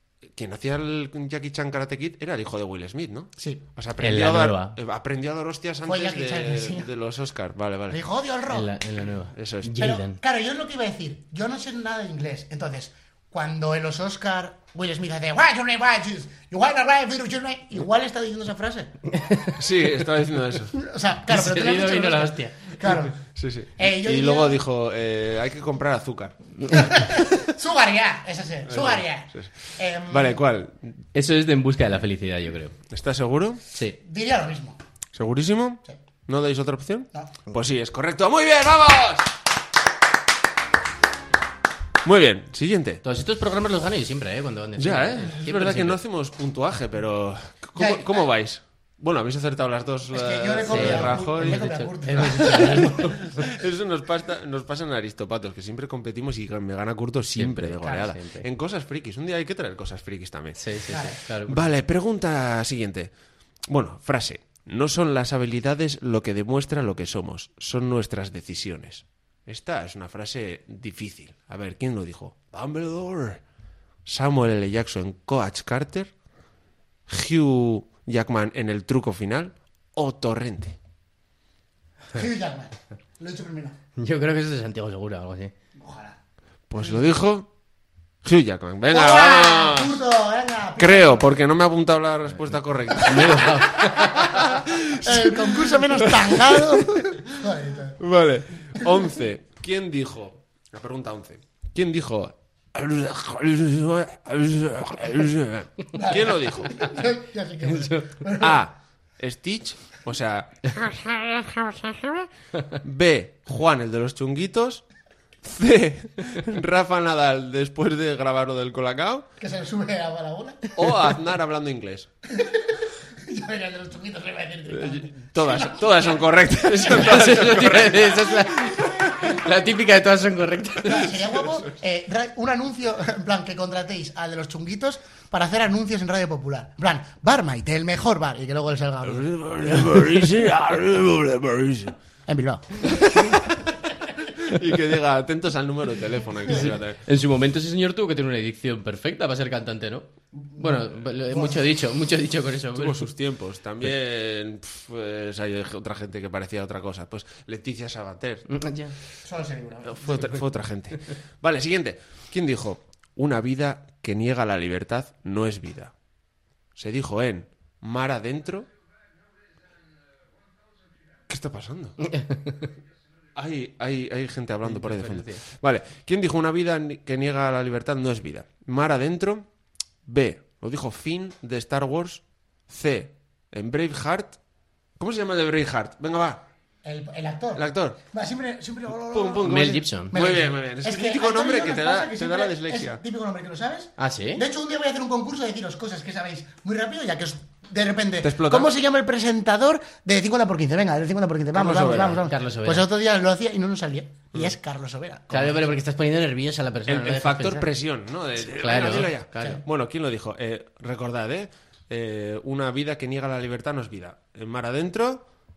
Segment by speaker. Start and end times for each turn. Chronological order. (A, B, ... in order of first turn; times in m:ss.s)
0:00.3-0:08.0 A
0:04.0-0:04.8 B
0:05.9-0:06.9 C
0:07.9-0:08.7 C
0:08.5-0:10.2 B
0:09.3-0:09.7 A
0:09.8-0:18.9 C
0:19.1-0:19.5 B
0:19.6-0:20.8 A
0:20.7-0:23.2 C
0:21.3-0:22.9 B
0:23.3-0:27.4 A
0:23.8-0:24.6 C
0:26.7-0:30.4 C
0:28.7-0:30.9 A
0:31.1-0:32.8 B
0:32.9-0:33.6 A
0:34.0-0:34.8 C
0:35.1-0:39.3 A
0:42.0-0:43.0 A
0:43.0-0:46.0 B
0:44.8-1:00.6 A
0:47.8-0:48.2 C
0:50.1-0:53.1 C
0:50.6-0:53.4 B
0:57.4-0:58.4 B
1:00.6-1:01.6 B
1:01.4-1:03.1 A
1:03.7-1:13.4 A
1:14.0-1:16.1 A
1:17.1-1:20.8 A
1:22.1-1:23.8 C
1:24.0-1:25.5 B
1:25.8-1:26.2 C
1:26.7-1:27.5 A
1:28.2-1:30.0 A
1:28.9-1:31.3 C
1:30.8-1:37.2 A
1:33.0-1:34.5 B
1:34.9-1:38.0 C
1:38.0-1:46.8 A
1:38.8-1:39.0 C
1:45.9-1:48.6 C
1:47.6-1:48.2 B
1:48.4-1:54.8 A
1:55.4-1:59.3 A
1:59.4-2:00.9 C
2:00.8-2:02.1 A
2:02.3-2:06.2 C
2:04.7-2:09.4 A
2:06.8-2:11.2 B
2:10.8-2:19.3 C
2:19.0-2:22.0 A
2:22.3-2:22.9 C
2:22.8-2:27.0 A
2:26.5-2:33.0 B
2:30.4-2:31.6 C
2:32.8-2:38.5 A
2:38.5-2:39.0 B
2:39.2-2:40.3 C
2:39.9-2:45.9 A
2:46.8-2:48.7 A
2:51.3-2:52.0 A
2:52.0-2:52.7 B
2:53.4-2:59.4 A
2:54.6-2:55.4 B
3:00.0-3:04.4 A
3:05.0-3:06.4 A
3:06.8-3:25.6 C
3:07.6-3:08.0 A
3:09.1-3:13.0 A
3:09.4-3:10.2 B
3:14.0-3:14.4 B
3:18.2-3:18.7 A
3:21.5-3:22.3 A
3:22.1-3:22.9 B
3:25.3-3:27.7 B
3:26.9-3:35.3 A
3:28.5-3:29.6 B